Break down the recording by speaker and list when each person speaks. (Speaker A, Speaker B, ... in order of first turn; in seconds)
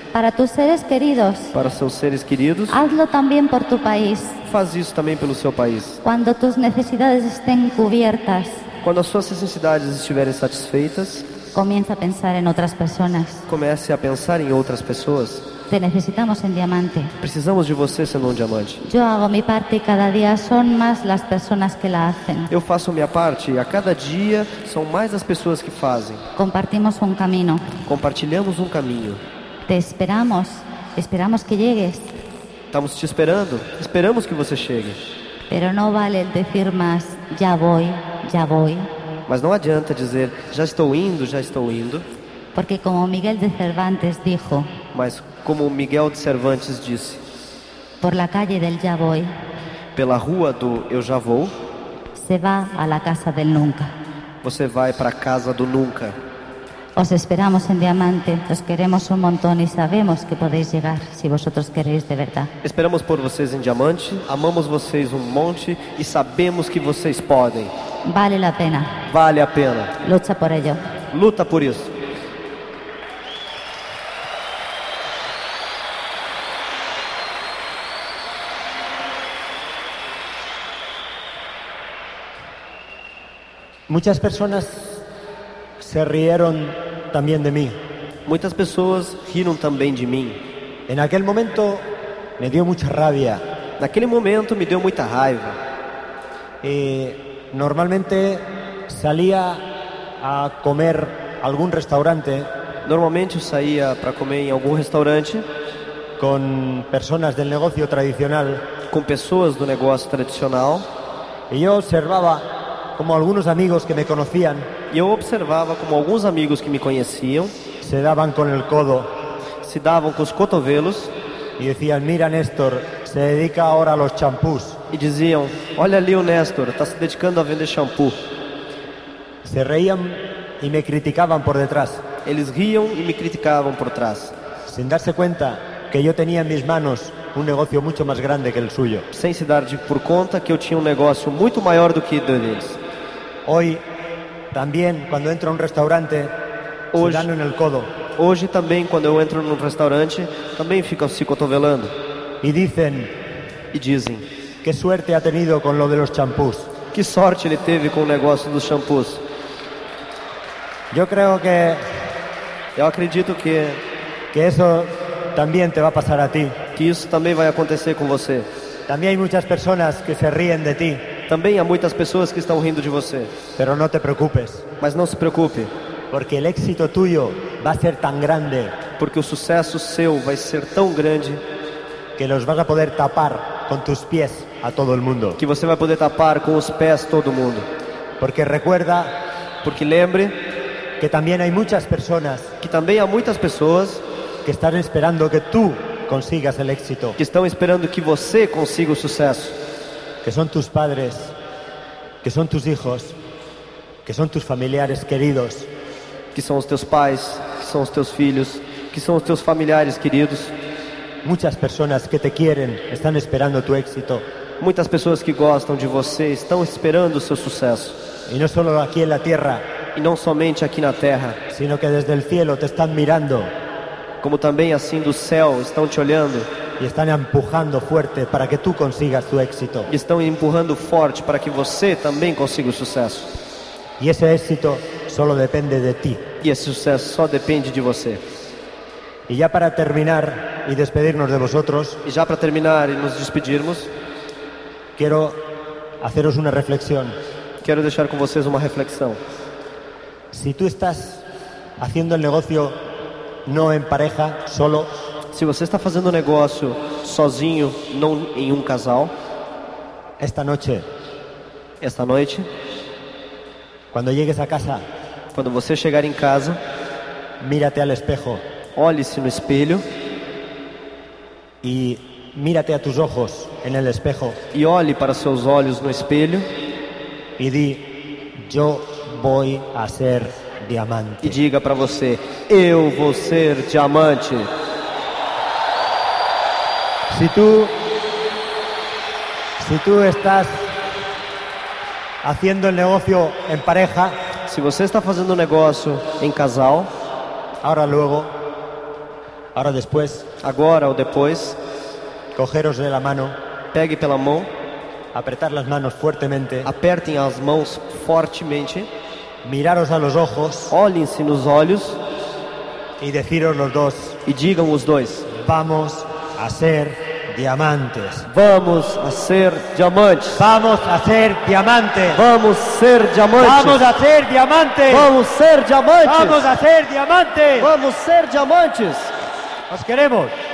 Speaker A: 0.1-1.5, 2.7-4.4, 6.0-8.7, 11.5-13.4, 15.7-17.1, 18.8-22.5, 26.4-27.7, 29.7-32.2, 35.5-38.9, 42.5-44.7, 48.0-49.3, 52.1-53.9, 57.0-62.5, 68.0-69.0, 70.0-70.8
Speaker B: 1.5-2.8, 4.4-6.0, 8.8-11.3, 13.5-15.5, 17.2-18.8, 22.5-26.2, 27.9-29.2, 32.7-35.0, 39.3-42.1, 44.9-47.2, 49.9-51.5, 54.4-56.1, 62.6-67.7, 69.1-69.9, 71.1-71.9, 88.2-90.4, 93.8-95.6, 102.8-105.5, 108.9-110.9, 114.9-117.5, 119.6-121.1, 124.9-128.2, 132.2-134.3, 139.1-142.8, 146.9-147.3, 148.2-151.9, 153.7-154.2, 156.9-159.2, 162.8-163.8, 166.7-168.5, 171.3-173.3, 174.8-175.7, 179.0-181.4, 185.4-187.7, 189.6-190.4, 192.6-194.0, 197.2-199.6, 206.3-210.5, 214.6-218.0, 219.9-221.4, 224.2-226.5, 229.9-233.4, 236.4-238.2, 242.0-243.9, 247.6-249.2, 255.3-259.1, 261.8-262.5, 265.3-266.6, 268.8-269.8, 274.5-276.5, 281.2-284.5, 294.5-296.9, 300.4-301.6, 303.7-304.5, 306.6-308.9, 310.7-312.0, 314.2-315.3, 318.3-320.4, 322.1-323.8, 324.9-326.4, 327.6-329.1
Speaker C: 83.9-85.0, 85.8-87.8, 90.9-91.8, 92.4-93.4, 96.6-99.6, 100.2-102.5, 106.2-108.6, 111.5-114.7, 117.8-119.1, 121.6-124.8, 129.4-132.0, 134.7-139.1, 143.4-143.8, 144.5-146.3, 146.9-147.9, 152.4-153.1, 154.6-156.7, 160.9-161.9, 164.3-166.6, 168.9-171.0, 173.6-174.7, 176.1-178.8, 182.2-185.4, 188.2-189.1, 191.0-192.5, 194.4-197.2, 200.2-201.3, 202.2-203.2, 204.0-205.7, 211.2-214.2, 218.3-219.6, 221.5-223.5, 226.8-229.9, 234.0-236.2, 239.3-242.0, 245.0-245.4, 246.0-247.2, 250.3-251.2, 251.8-252.8, 253.4-254.9, 260.2-260.9, 263.9-264.8, 267.4-268.4, 271.6-274.4, 277.4-281.4, 287.1-287.7, 289.6-290.7, 292.2-294.2, 297.6-298.3, 299.5-300.3, 302.3-303.4, 305.1-306.7, 309.4-310.7, 313.0-314.2, 315.3-318.3, 320.4-322.2, 323.4-325.1, 326.0-327.7, 329.7-330.3